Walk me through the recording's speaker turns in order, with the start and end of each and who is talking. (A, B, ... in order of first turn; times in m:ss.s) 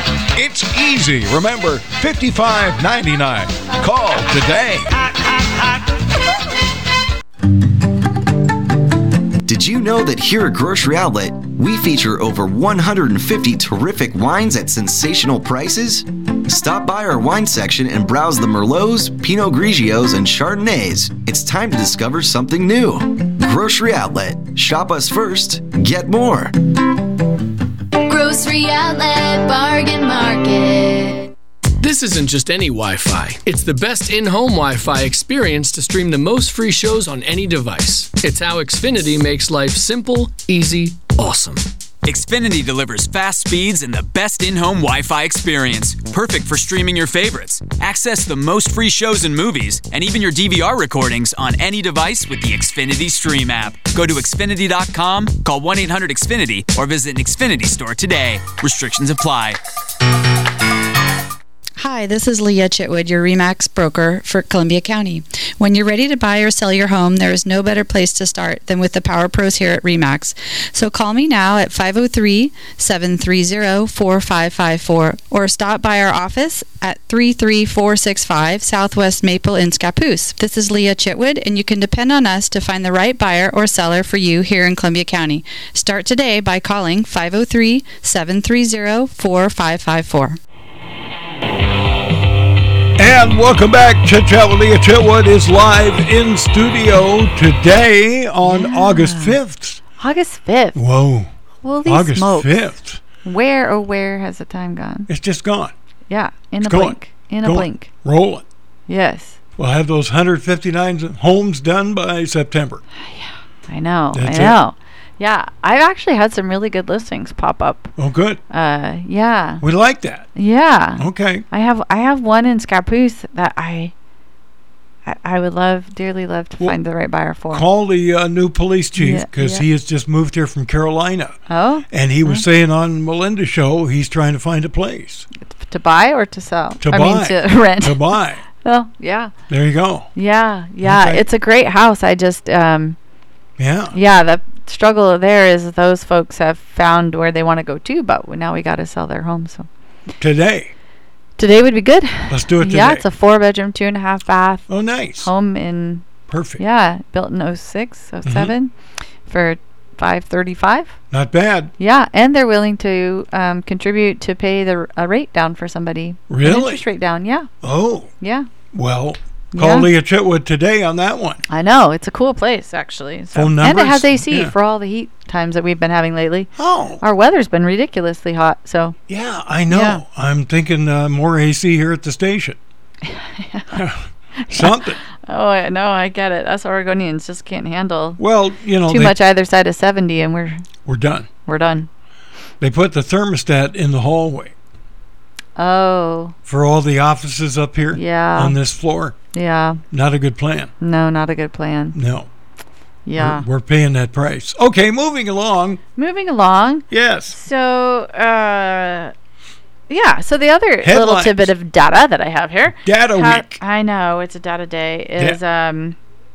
0:00.3-0:04.9 A
0:09.4-0:26.6 B
0:28.0-0:31.3 C
0:31.8-0:41.6 D
0:42.0-0:59.6 E
1:01.8-1:30.4 F
1:33.0-1:39.8 G
1:38.4-1:39.4 H
1:40.0-1:40.8 H
1:40.7-1:41.3 G
1:41.6-1:42.6 H
1:41.8-1:43.0 G
1:43.2-1:45.1 H
1:45.1-1:45.7 G
1:46.1-1:47.9 H
1:46.6-1:48.4 G
1:48.9-1:49.4 H
1:49.6-1:52.8 G
1:53.0-1:58.0 H
1:54.1-1:54.6 G
1:58.0-1:58.4 G
1:58.5-1:59.6 H
1:59.6-2:00.3 G
2:00.3-2:03.9 H
2:01.0-2:01.4 G
2:05.0-2:07.6 H
2:07.5-2:11.4 G
2:09.0-2:09.6 H
2:11.5-2:12.4 H
2:11.9-2:15.3 G
2:15.5-2:19.3 H
2:16.8-2:18.4 G
2:19.5-2:20.1 G
2:20.1-2:23.0 H
2:20.8-2:21.2 G
2:23.6-2:24.0 G
2:23.9-2:29.7 H
2:30.2-2:30.7 G
2:31.4-2:34.7 H
2:32.3-2:33.0 G
2:34.7-2:35.3 G
2:35.2-2:36.0 H
2:36.3-2:36.6 G
2:36.6-2:38.7 H
2:38.2-2:38.5 G
2:39.3-2:41.0 H
2:41.1-2:41.7 G
2:41.8-2:47.5 H
2:46.3-2:46.8 G
2:47.6-2:48.1 G
2:48.2-2:48.5 H
2:48.7-2:51.4 G
2:49.5-2:49.9 H
2:51.5-2:59.0 H
2:53.3-2:54.5 G
2:56.6-2:57.0 G
2:59.1-3:02.6 G
2:59.7-3:00.0 H
3:03.0-3:03.8 H
3:03.7-3:05.0 G
3:04.4-3:08.2 H
3:08.2-3:09.2 G
3:08.9-3:10.6 H
3:10.9-3:11.3 G
3:11.4-3:11.9 H
3:12.6-3:14.5 G
3:15.6-3:16.3 H
3:16.4-3:19.2 G
3:17.9-3:18.6 H
3:19.3-3:19.8 H
3:19.9-3:20.7 G
3:20.8-3:22.0 H
3:21.9-3:22.3 G
3:23.0-3:23.4 H
3:23.1-3:25.8 G
3:26.0-3:29.1 H
3:26.9-3:27.4 G
3:29.9-3:36.0 H
3:30.8-3:31.5 G
3:32.8-3:33.6 G